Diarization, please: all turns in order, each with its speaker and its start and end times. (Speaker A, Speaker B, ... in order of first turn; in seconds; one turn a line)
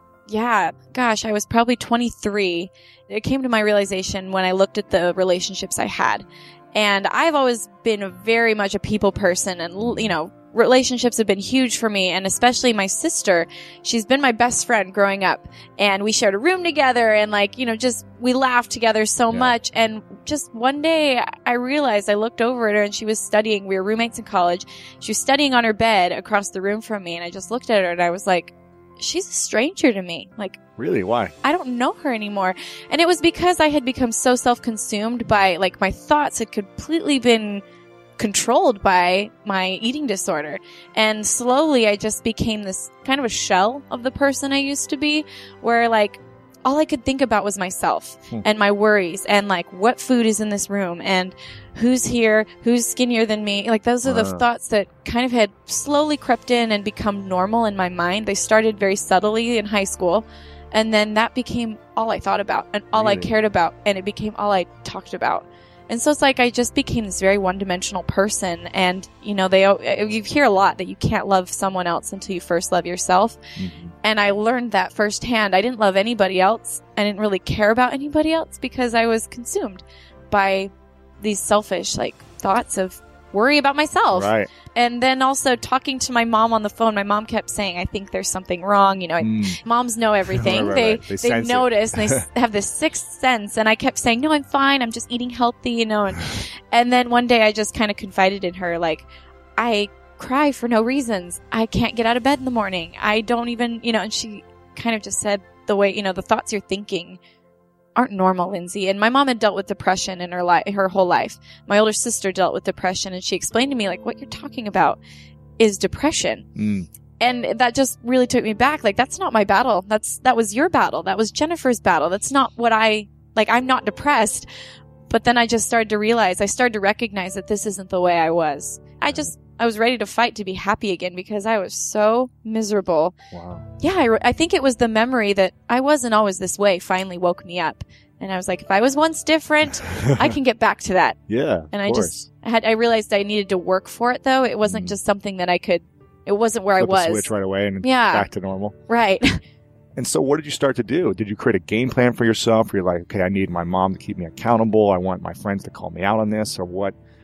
Speaker A: 0.3-30.6
Speaker B: 9.8-10.1
Speaker B: 30.8-31.3
Speaker A: 31.4-37.6
Speaker A: 38.2-73.4
Speaker B: 54.0-54.5
Speaker B: 62.9-63.3
Speaker B: 73.6-73.9
Speaker A: 74.0-107.2
Speaker B: 84.1-84.5
Speaker B: 89.2-89.6
Speaker B: 90.2-92.2
Speaker A: 108.0-115.0
Speaker A: 115.6-116.5
Speaker B: 116.5-116.9
Speaker A: 117.2-124.5
Speaker A: 125.1-133.1
Speaker B: 133.3-133.7
Speaker A: 133.8-141.2
Speaker B: 141.3-142.2
Speaker A: 141.7-148.3
Speaker B: 144.6-144.9
Speaker B: 146.8-148.7
Speaker A: 148.9-149.4
Speaker B: 149.9-156.9